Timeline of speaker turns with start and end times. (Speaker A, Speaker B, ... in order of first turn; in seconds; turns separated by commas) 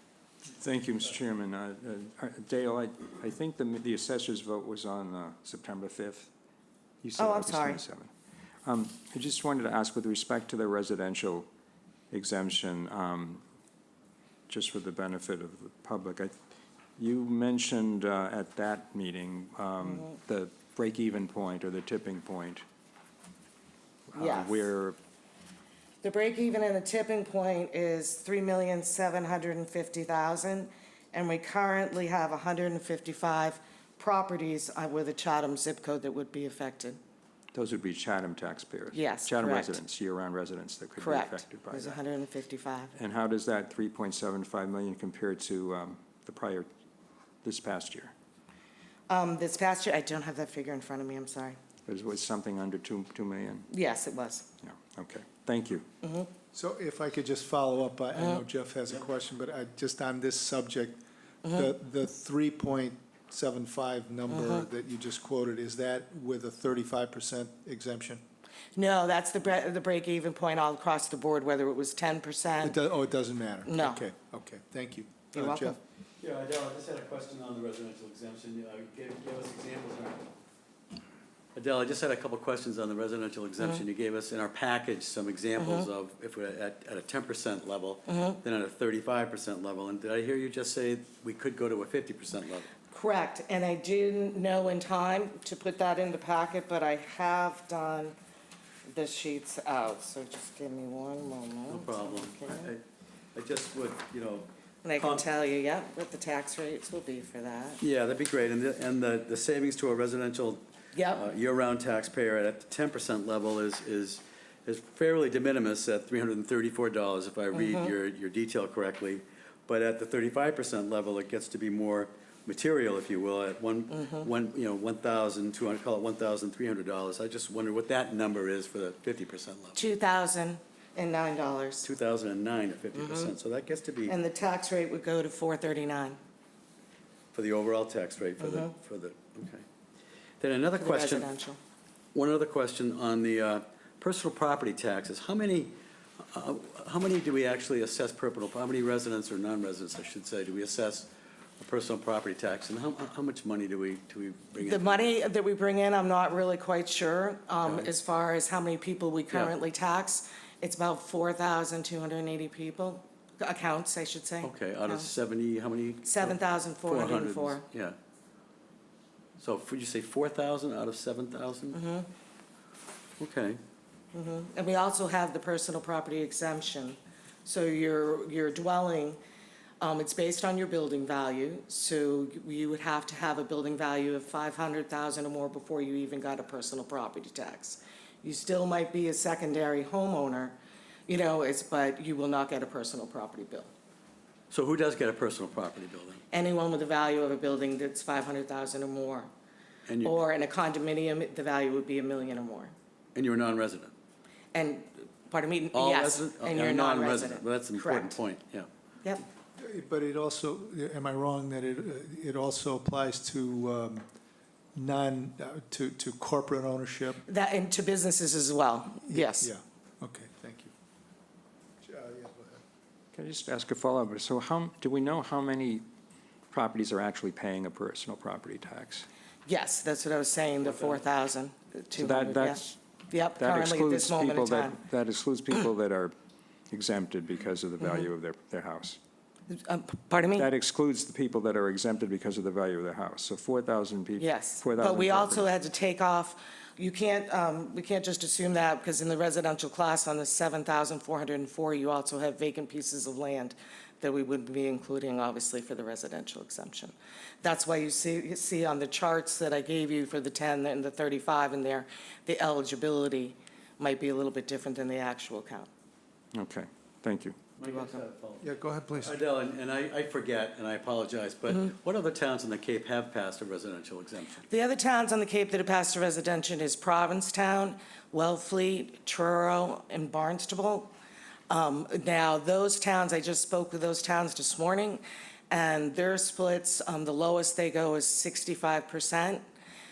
Speaker A: 0.4-6.3, Speaker A: 7.0-8.1, Speaker B: 7.2-7.8, Speaker A: 8.6-11.5, Speaker A: 12.1-13.4, Speaker A: 14.5-16.3, Speaker A: 17.0-22.6, Speaker B: 19.8-20.1, Speaker A: 24.1-25.0, Speaker B: 24.1-24.7, Speaker B: 26.0-37.0, Speaker A: 37.5-42.0, Speaker B: 38.9-39.8, Speaker B: 41.0-42.9, Speaker A: 43.0-46.7, Speaker A: 47.4-48.1, Speaker B: 49.1-51.6, Speaker A: 51.9-53.7, Speaker B: 53.7-54.5, Speaker A: 54.6-55.8, Speaker B: 56.0-56.3, Speaker C: 56.5-68.2, Speaker B: 58.2-58.4, Speaker B: 61.4-61.7, Speaker B: 64.3-64.7, Speaker B: 68.8-72.8, Speaker C: 72.6-75.8, Speaker B: 73.6-74.0, Speaker B: 75.3-75.8, Speaker D: 76.2-80.3, Speaker D: 81.5-92.7, Speaker B: 85.6-85.8, Speaker B: 88.1-88.4, Speaker B: 92.9-98.1, Speaker B: 98.9-102.7, Speaker D: 101.7-102.8, Speaker D: 103.3-105.2, Speaker B: 104.8-107.8, Speaker D: 107.8-129.8, Speaker B: 110.9-111.2, Speaker B: 117.5-117.9, Speaker B: 129.8-131.9, Speaker D: 131.8-134.1, Speaker B: 133.0-133.3, Speaker B: 134.1-136.2, Speaker D: 137.3-139.6, Speaker D: 140.4-141.3, Speaker B: 140.8-141.6, Speaker D: 142.1-155.1, Speaker B: 154.6-165.1, Speaker D: 157.6-157.9, Speaker D: 164.4-168.0, Speaker B: 166.0-167.6, Speaker D: 169.4-171.8, Speaker B: 171.7-172.1, Speaker D: 173.2-173.6, Speaker B: 174.1-179.2, Speaker B: 179.8-193.7, Speaker D: 194.5-196.2, Speaker B: 196.3-199.3, Speaker D: 199.9-200.2, Speaker B: 200.0-202.7, Speaker D: 203.1-203.9, Speaker B: 204.5-208.2, Speaker D: 205.7-208.7, Speaker C: 209.6-214.0, Speaker C: 214.7-217.2, Speaker B: 217.2-219.5, Speaker C: 219.1-220.7, Speaker C: 221.8-222.6, Speaker A: 223.1-225.8, Speaker A: 226.5-229.1, Speaker B: 229.4-234.8, Speaker A: 232.0-232.8, Speaker A: 233.4-236.1, Speaker A: 236.7-239.0, Speaker B: 239.5-240.5, Speaker A: 240.3-245.5, Speaker B: 244.2-265.7, Speaker A: 266.3-267.4, Speaker D: 267.6-274.4, Speaker B: 267.6-268.0, Speaker C: 268.4-269.1, Speaker B: 274.5-280.9, Speaker B: 281.5-289.4